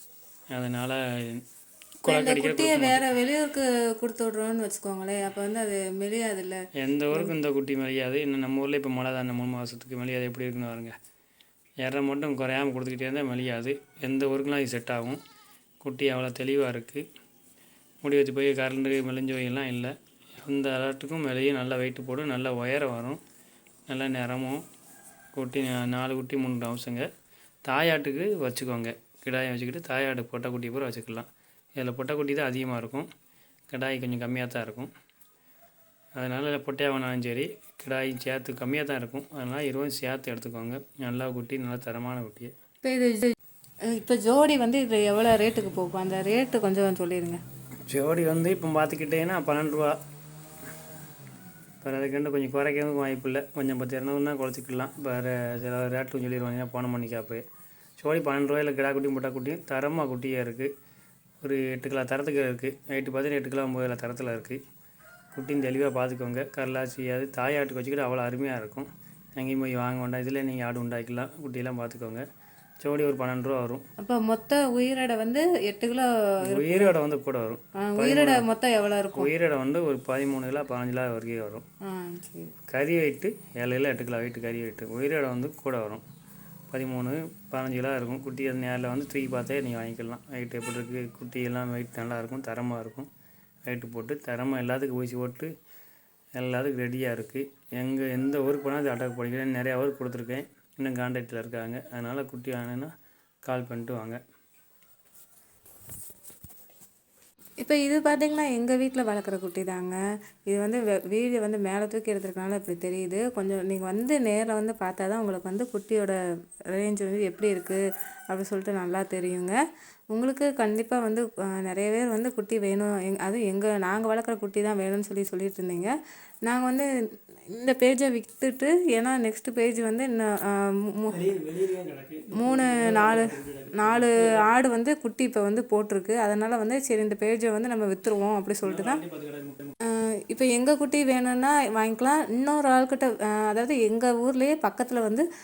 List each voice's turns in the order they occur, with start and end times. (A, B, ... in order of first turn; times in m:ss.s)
0:00.5-0:01.4 A
0:02.0-0:03.1 A
0:02.0-0:06.6 B
0:06.8-0:10.9 A
0:11.8-0:15.2 A
0:15.8-0:17.0 A
0:18.0-0:23.2 A
0:23.9-0:24.6 A
0:25.4-0:27.1 A
0:27.6-0:31.2 A
0:31.8-0:33.1 A
0:33.7-0:34.9 A
0:36.2-0:42.5 A
0:42.8-0:43.3 B
0:43.8-0:47.4 B
0:47.9-0:50.0 A
0:51.8-0:57.4 A
0:58.0-1:00.7 A
1:01.4-1:04.6 A
1:05.3-1:12.2 A
1:12.8-1:13.8 A
1:14.0-1:16.9 B
1:16.4-1:18.4 A
1:17.7-1:19.3 B
1:19.2-1:21.6 A
1:21.8-1:22.5 B
1:22.7-1:26.0 A
1:26.7-1:33.1 A
1:33.7-1:35.5 A
1:36.4-1:42.9 A
1:43.4-1:44.2 A
1:47.6-1:56.2 B
1:56.7-1:59.6 B
2:00.1-2:05.9 B
2:06.4-2:06.9 B
2:07.5-2:11.3 B
2:11.1-2:14.2 A
2:12.4-2:19.0 B
2:18.6-2:19.7 A
2:19.8-2:25.2 B